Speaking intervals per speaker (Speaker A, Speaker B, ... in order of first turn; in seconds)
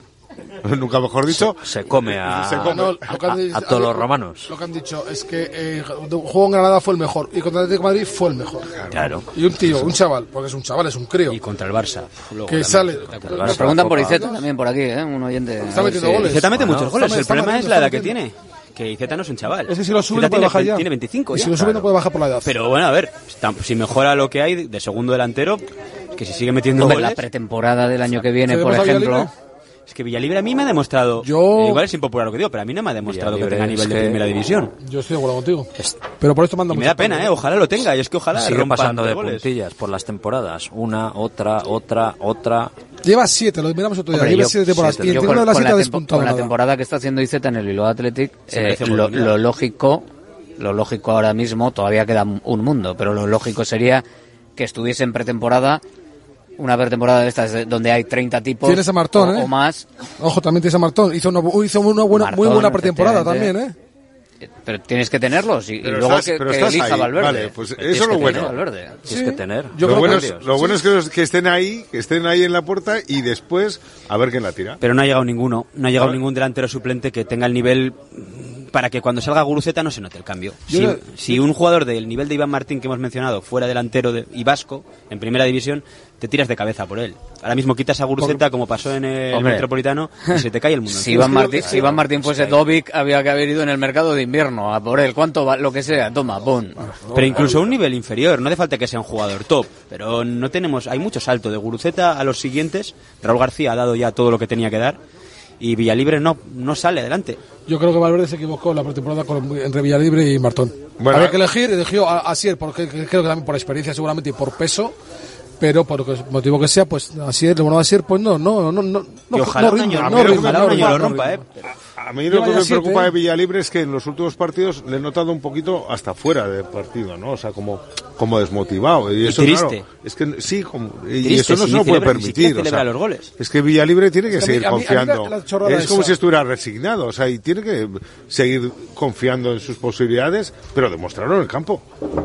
Speaker A: 0.6-3.0, 65.8-68.6, 69.8-74.8, 111.0-111.5, 119.9-120.9, 122.0-141.8
Speaker B: 1.3-4.5, 8.9-9.2, 13.3-14.1, 33.0-34.2, 38.3-42.7, 69.1-70.5
Speaker C: 2.6-8.7, 9.3-11.4, 12.5-14.4, 15.6-18.2, 19.7-22.5, 28.4-29.3, 31.2-31.8, 34.8-37.3, 43.0-46.5, 58.6-59.5, 60.2-63.7, 69.0-70.9, 80.7-81.4, 91.2-91.7, 96.8-97.8, 107.7-114.9, 115.6-121.4, 122.3-123.1, 134.3-136.2
Speaker D: 11.3-13.4, 16.2-21.9, 22.4-27.2, 29.9-34.7, 36.7-39.5, 48.5-49.3, 74.8-92.6, 97.1-105.0, 105.6-107.4, 119.3-121.5, 129.2-129.8, 131.2-133.3
Speaker E: 13.4-16.3, 26.8-29.3, 44.1-54.0, 54.5-55.8, 56.6-59.9, 62.1-63.5, 64.4-69.0, 89.3-89.7, 90.9-96.8